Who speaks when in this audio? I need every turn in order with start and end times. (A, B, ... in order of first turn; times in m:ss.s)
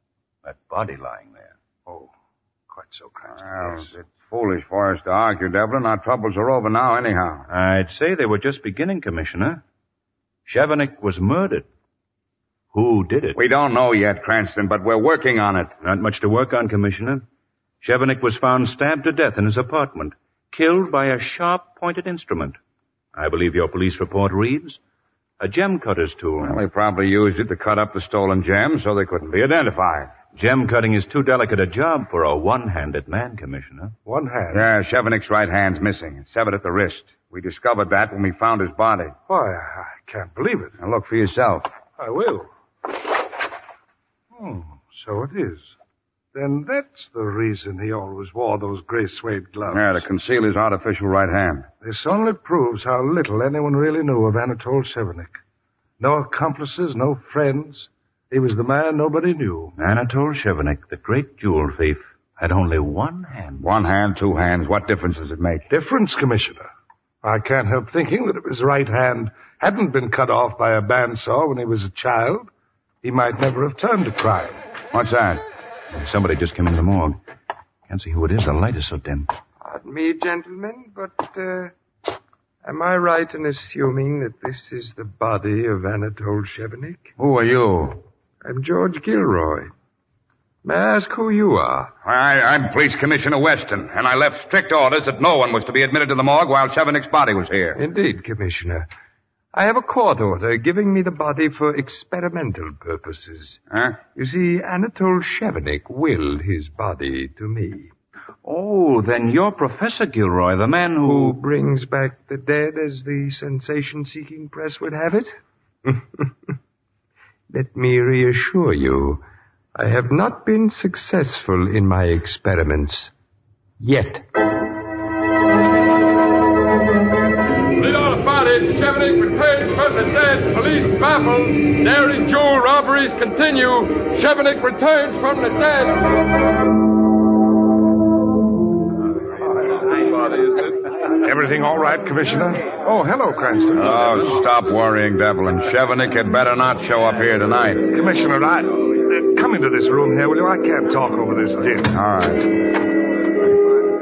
0:00.4-0:01.5 A
0:02.8-0:03.2 B
0:03.4-0:07.5 C
0:07.5-0:09.6 A
0:10.5-0:11.7 A
0:12.7-0:13.4 A
0:13.4-0:15.7 C
0:15.8-0:17.2 A
0:17.8-0:22.6 A
0:23.2-0:24.8 A
0:25.4-0:26.6 A
0:26.4-0:30.2 C
0:30.3-0:34.0 A
0:34.1-0:34.7 B
0:34.5-0:39.2 C
0:39.3-0:40.7 B
0:40.8-0:41.7 C
0:42.0-0:42.5 B
0:44.4-0:45.7 B
0:46.4-0:50.0 B
0:49.7-0:51.7 C
0:51.8-0:55.3 B
0:56.0-0:59.7 B
0:59.8-1:03.7 A
1:03.6-1:05.6 C
1:05.7-1:06.7 B
1:07.2-1:12.5 B
1:13.0-1:14.6 B
1:14.9-1:15.4 C
1:15.9-1:17.2 A
1:17.9-1:19.3 A
1:19.6-1:21.7 D
1:22.6-1:27.1 D
1:27.2-1:28.0 C
1:28.4-1:29.7 D
1:30.6-1:31.9 D
1:32.0-1:37.8 C
1:37.8-1:38.9 D
1:39.5-1:43.6 D
1:43.7-1:44.0 C
1:44.1-1:47.9 D
1:48.4-1:51.4 A
1:51.0-1:55.3 D
1:57.5-1:59.2 D
1:59.8-2:03.1 D
2:03.8-2:04.2 D
2:07.8-2:16.0 E
2:21.2-2:24.0 B
2:23.8-2:27.9 C
2:27.9-2:31.9 B
2:31.9-2:32.5 C